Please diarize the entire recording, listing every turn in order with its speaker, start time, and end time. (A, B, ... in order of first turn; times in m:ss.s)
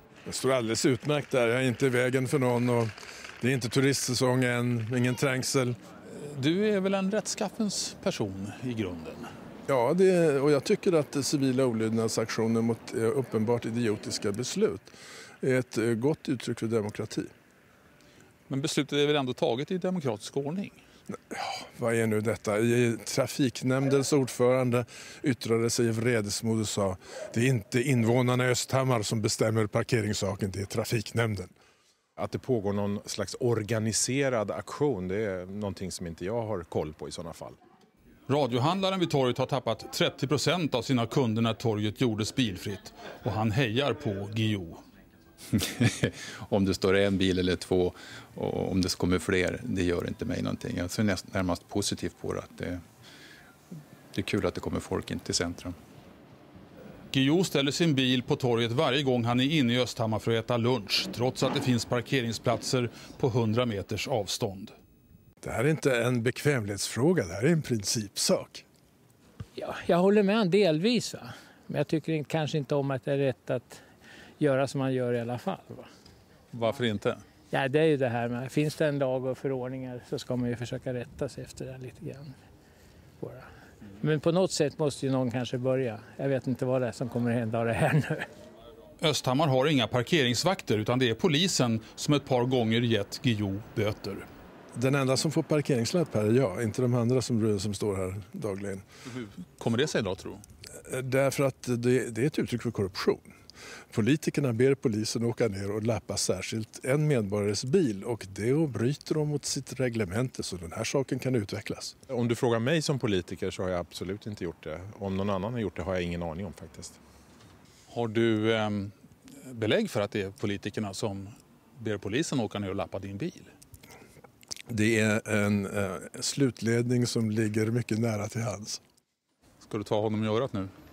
0:00.3-0:05.8 A
0:06.1-0:09.3 B
0:09.7-0:17.3 A
0:18.5-0:20.8 B
0:21.3-0:31.5 A
0:32.2-0:37.6 C
0:38.3-0:44.8 B
0:45.5-0:52.8 D
0:54.1-0:55.8 D
0:57.1-1:04.7 B
1:05.4-1:08.6 A
1:09.6-1:13.8 E
1:14.4-1:15.9 E
1:16.5-1:17.2 B
1:17.5-1:22.4 E
1:23.2-1:23.5 E
1:24.0-1:28.3 E
1:29.0-1:34.3 B
1:34.8-1:38.8 A
1:39.2-1:40.4 B
1:40.9-1:43.2 A
1:43.9-1:52.0 A
1:52.1-1:57.0 C
1:57.9-2:03.5 B
2:04.7-2:08.8 A
2:09.6-2:10.7 B